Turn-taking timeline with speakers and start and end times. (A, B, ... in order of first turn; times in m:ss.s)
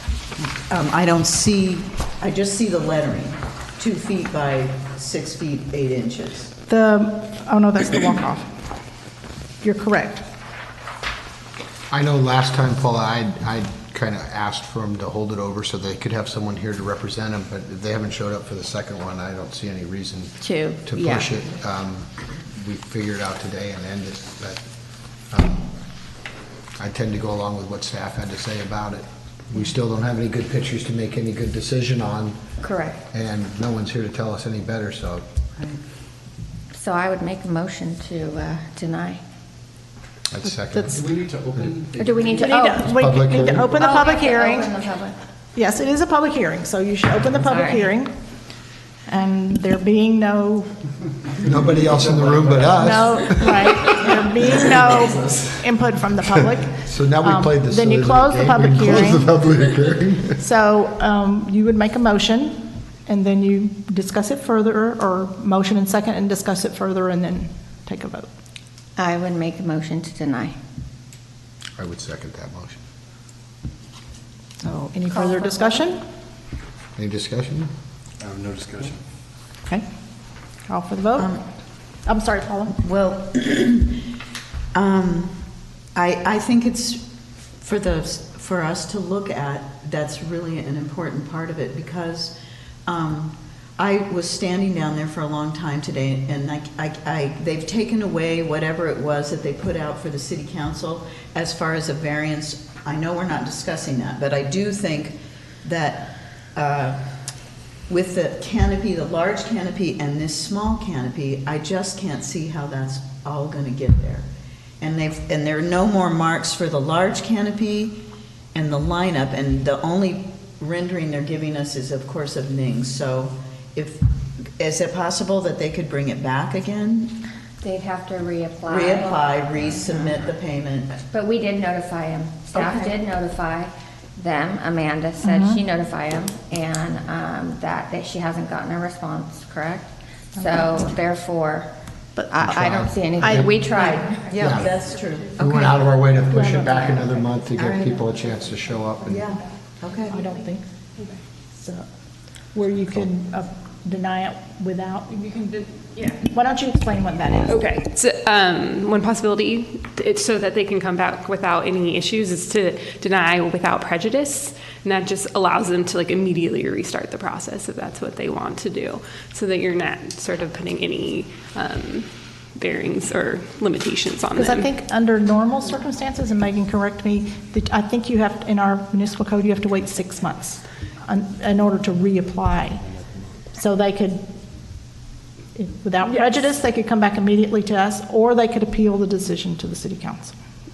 0:00.7-0:06.5 A
0:06.7-0:08.5 B
0:09.6-0:10.2 B
0:11.9-0:24.6 C
0:20.4-0:21.3 D
0:25.3-0:25.7 C
0:26.8-0:32.4 C
0:32.6-0:33.0 D
0:33.1-0:35.2 C
0:36.7-0:39.2 D
0:40.3-0:41.1 C
0:40.7-0:41.0 B
0:40.9-0:42.3 E
0:42.0-0:43.0 D
0:42.4-0:45.0 B
0:42.9-0:43.8 C
0:43.7-0:45.2 D
0:45.6-0:48.2 B
0:47.5-0:47.9 D
0:49.1-0:50.7 B
0:51.4-0:53.8 C
0:51.9-0:52.9 E
0:52.8-0:59.3 B
0:56.8-1:00.4 C
1:00.4-1:08.3 B
1:09.0-1:10.6 D
1:11.8-1:12.8 C
1:14.6-1:16.0 B
1:15.1-1:15.8 D
1:17.0-1:17.7 C
1:18.2-1:19.0 E
1:20.7-1:21.4 B
1:21.2-1:21.4 A
1:22.0-1:22.8 B
1:22.8-1:24.0 A
1:24.7-1:27.1 A
1:27.6-1:32.4 A
1:32.9-1:47.1 A
1:47.9-1:54.3 A
1:54.8-1:58.0 A
1:58.5-2:07.2 A
2:07.6-2:09.4 D
2:08.7-2:11.0 A
2:11.1-2:21.7 D
2:12.5-2:13.0 A
2:15.2-2:15.6 B
2:20.4-2:20.9 B
2:22.2-2:24.3 D
2:22.4-2:23.5 C
2:23.2-2:24.3 B
2:24.2-2:25.8 A
2:24.4-2:24.8 C
2:25.4-2:29.4 C
2:26.3-2:27.2 B
2:27.6-2:27.8 A
2:29.1-2:30.2 A
2:30.1-2:30.7 B
2:31.5-2:31.8 B
2:32.5-2:35.4 B
2:35.6-2:36.2 F
2:36.2-2:37.7 B
2:37.5-2:54.7 F
2:54.4-3:02.8 B
3:03.5-3:04.2 B
3:05.6-3:10.3 B